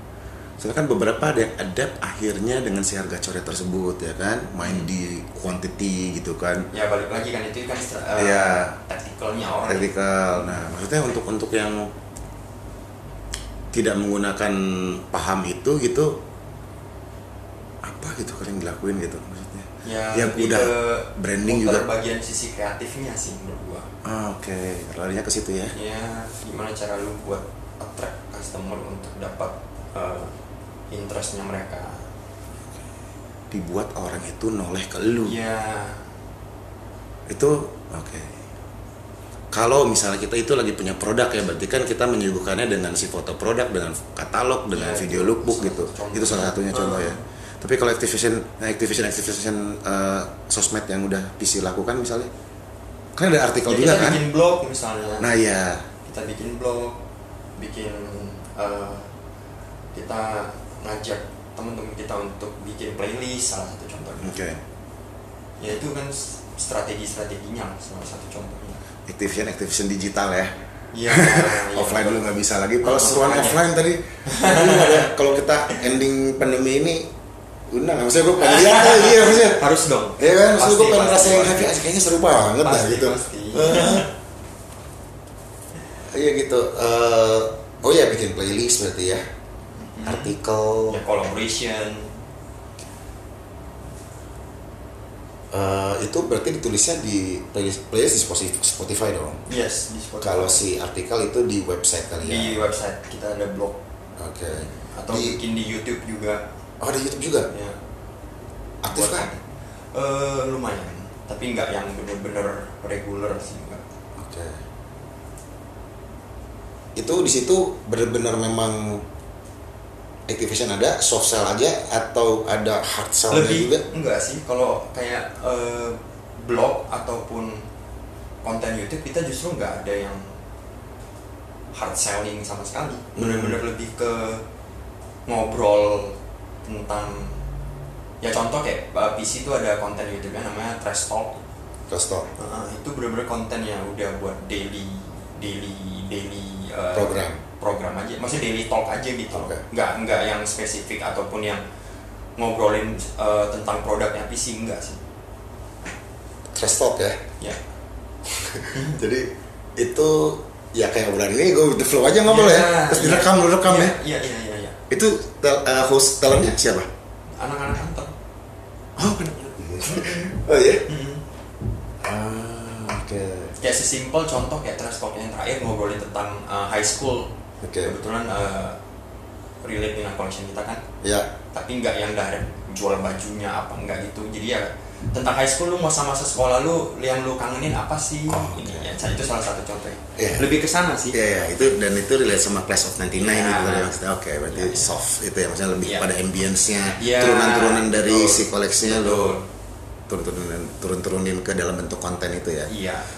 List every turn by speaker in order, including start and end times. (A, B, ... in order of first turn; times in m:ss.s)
0:00.6-0:06.7 A
0:04.6-0:04.9 B
0:06.7-0:10.6 B
0:08.2-0:08.7 A
0:09.7-0:11.9 A
0:13.7-0:16.2 A
0:17.8-0:21.8 A
0:19.8-0:23.9 B
0:24.0-0:25.7 A
0:25.7-0:30.3 B
0:30.9-0:32.0 B
0:33.5-0:35.4 A
0:35.2-0:36.0 B
0:37.3-0:38.4 A
0:39.5-0:52.3 A
0:44.7-0:47.2 B
0:53.2-0:54.2 A
0:53.7-0:55.3 B
0:55.2-0:55.8 A
0:56.0-0:57.0 B
0:57.6-0:59.1 B
0:59.9-1:04.4 B
1:04.2-1:04.6 A
1:05.6-1:08.8 B
1:09.0-1:10.6 A
1:10.9-1:12.3 B
1:11.1-1:17.1 A
1:12.8-1:13.6 B
1:14.2-1:15.1 B
1:17.7-1:19.7 A
1:18.4-1:21.8 B
1:20.2-1:24.1 A
1:22.6-1:24.1 B
1:26.1-1:29.2 A
1:29.8-1:30.3 B
1:30.0-1:31.0 A
1:30.9-1:32.1 B
1:35.5-1:39.4 A
1:39.4-1:40.6 B
1:40.2-1:42.7 A
1:42.2-1:43.8 B
1:44.2-1:45.4 A
1:44.7-1:46.4 B
1:46.8-1:47.5 A
1:47.5-1:47.8 B
1:48.8-1:49.3 A
1:48.9-1:49.4 B
1:49.9-1:53.8 B
1:54.2-1:54.6 A
1:57.0-1:59.0 A
2:00.3-2:03.8 A
2:03.3-2:07.6 B
2:08.4-2:10.3 B
2:11.7-2:14.4 B
2:13.2-2:13.6 A
2:15.3-2:17.4 B
2:18.2-2:21.4 B
2:21.9-2:22.3 A
2:22.4-2:31.6 B
2:26.9-2:27.4 A
2:29.3-2:29.6 A
2:32.4-2:35.0 B
2:36.5-2:37.2 A
2:38.2-2:44.0 A
2:38.7-2:39.0 B
2:42.2-2:44.8 B
2:44.9-2:46.9 A
2:47.4-2:48.1 B
2:49.0-2:50.8 A
2:49.5-2:50.4 B
2:50.9-2:51.2 B
2:52.0-2:53.5 A
2:53.6-2:58.8 B
2:57.6-2:57.9 A
2:59.6-3:00.8 B
3:01.0-3:01.3 A
3:01.5-3:11.2 B
3:08.3-3:08.9 A
3:10.2-3:10.5 A
3:11.1-3:19.4 A
3:13.2-3:14.0 B
3:14.5-3:14.9 B
3:15.8-3:16.1 B
3:17.0-3:19.5 B
3:20.1-3:22.7 A
3:22.7-3:23.1 B